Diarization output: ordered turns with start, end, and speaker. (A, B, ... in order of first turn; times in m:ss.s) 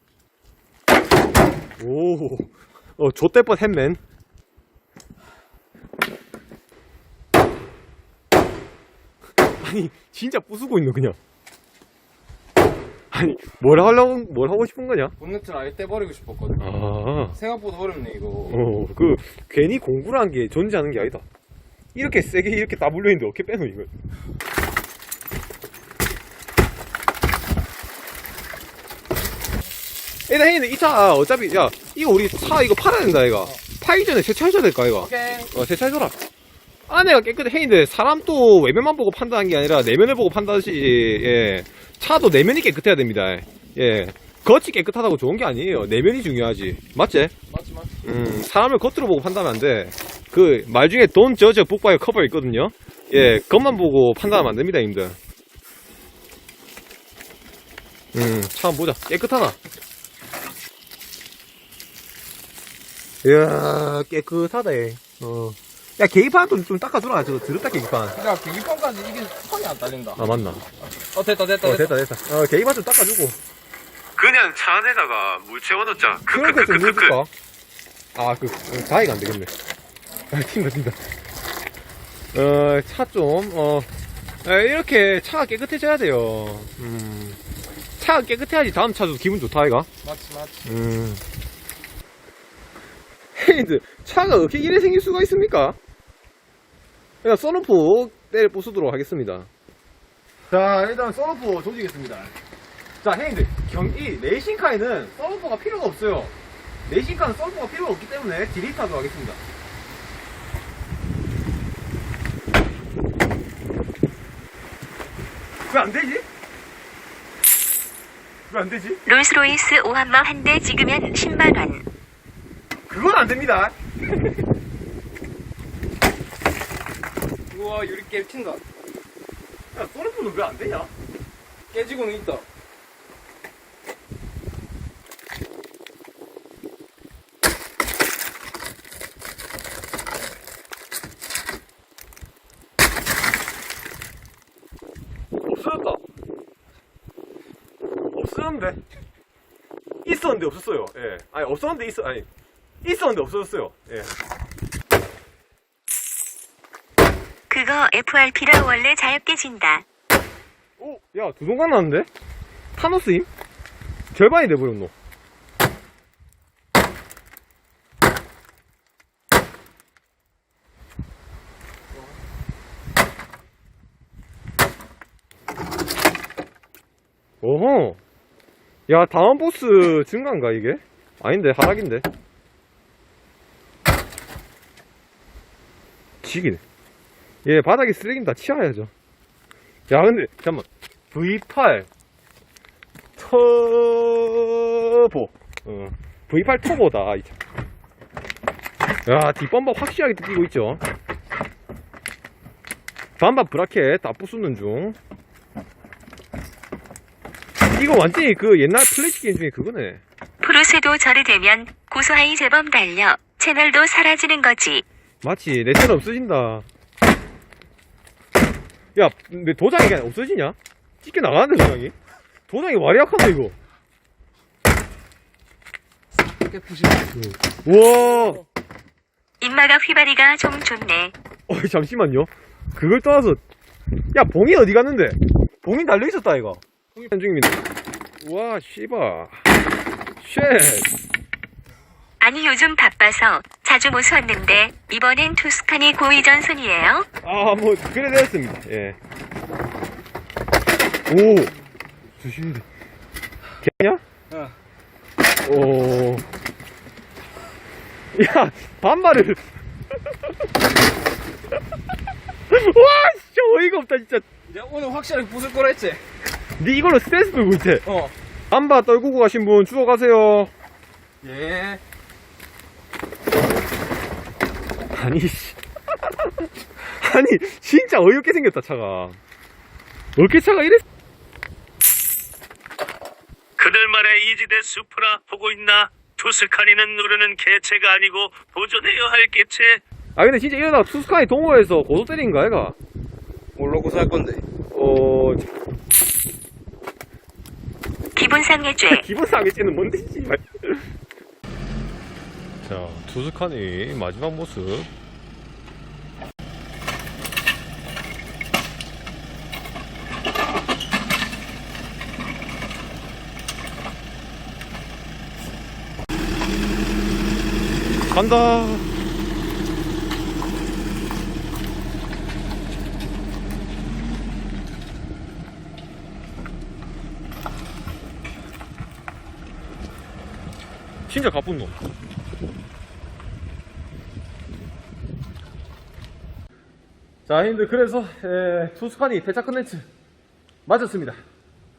0:01.8-0:04.0 A
0:09.6-0:11.2 A
0:13.1-0:15.1 A
0:15.2-0:16.6 B
0:16.6-0:17.4 A
0:17.3-0:18.6 B
0:18.5-0:21.2 A
0:22.0-0:23.9 A
0:30.3-0:36.2 A
0:35.0-0:35.5 B
0:36.9-0:47.3 A
0:47.5-0:48.0 B
0:48.0-0:55.2 A
0:58.1-0:59.6 A
1:03.2-1:08.2 A
1:08.2-1:10.2 B
1:10.2-1:10.6 A
1:11.1-1:11.9 B
1:11.6-1:13.4 A
1:14.2-1:17.2 C
1:16.3-1:17.3 A
1:18.2-1:19.5 A
1:20.3-1:21.0 A
1:22.3-1:23.9 A
1:24.4-1:27.4 A
1:28.0-1:29.9 A
1:30.0-1:30.7 B
1:30.7-1:31.2 A
1:33.4-1:35.8 A
1:37.2-1:39.5 A
1:40.5-1:42.4 A
1:43.0-1:46.3 A
1:46.9-1:49.4 A
1:55.7-1:56.2 A
1:58.5-1:59.0 A
1:59.1-2:01.8 D
2:02.9-2:03.7 A
2:07.5-2:08.6 B
2:09.7-2:10.9 A
2:11.7-2:12.4 B
2:25.4-2:26.0 A
2:28.1-2:28.8 A
2:30.0-2:32.3 A
2:32.8-2:34.1 A
2:37.5-2:39.8 D
2:40.8-2:42.1 A
2:42.8-2:43.3 A
2:44.1-2:44.9 A
2:57.4-2:58.0 A
2:58.9-3:02.1 A
3:06.2-3:06.6 A
3:07.4-3:08.9 A
3:09.9-3:11.9 A
3:13.2-3:17.4 A
3:19.1-3:20.8 A
3:23.2-3:25.0 A
3:27.7-3:30.0 A
3:30.4-3:34.8 D
3:35.2-3:36.6 A
3:39.0-3:42.0 A
3:42.5-3:43.6 A
3:46.4-3:47.1 B
3:47.2-3:48.4 A
3:49.4-3:51.1 D
3:51.5-3:53.4 A
3:54.1-3:57.6 A
3:58.2-3:59.4 A
4:00.2-4:00.9 A
4:02.2-4:07.0 D
4:07.2-4:09.0 A
4:11.1-4:11.5 A
4:12.2-4:12.6 A
4:13.6-4:14.0 A
4:15.4-4:16.2 A
4:18.1-4:19.4 A
4:22.5-4:24.2 A
4:24.5-4:26.0 B
4:26.6-4:27.8 A
4:27.8-4:28.1 B
4:28.5-4:30.5 A
4:31.2-4:31.8 B
4:34.9-4:35.6 A
4:36.8-4:39.2 A
4:40.2-4:40.8 A
4:43.6-4:49.8 E
4:50.2-4:52.8 A
4:53.6-4:54.4 B
4:54.7-4:55.5 A
4:58.2-4:59.0 D
4:58.9-5:00.9 A
5:02.6-5:04.9 A
5:18.1-5:18.9 A
5:31.1-5:31.7 A
5:37.3-5:39.8 A
5:40.7-5:41.2 A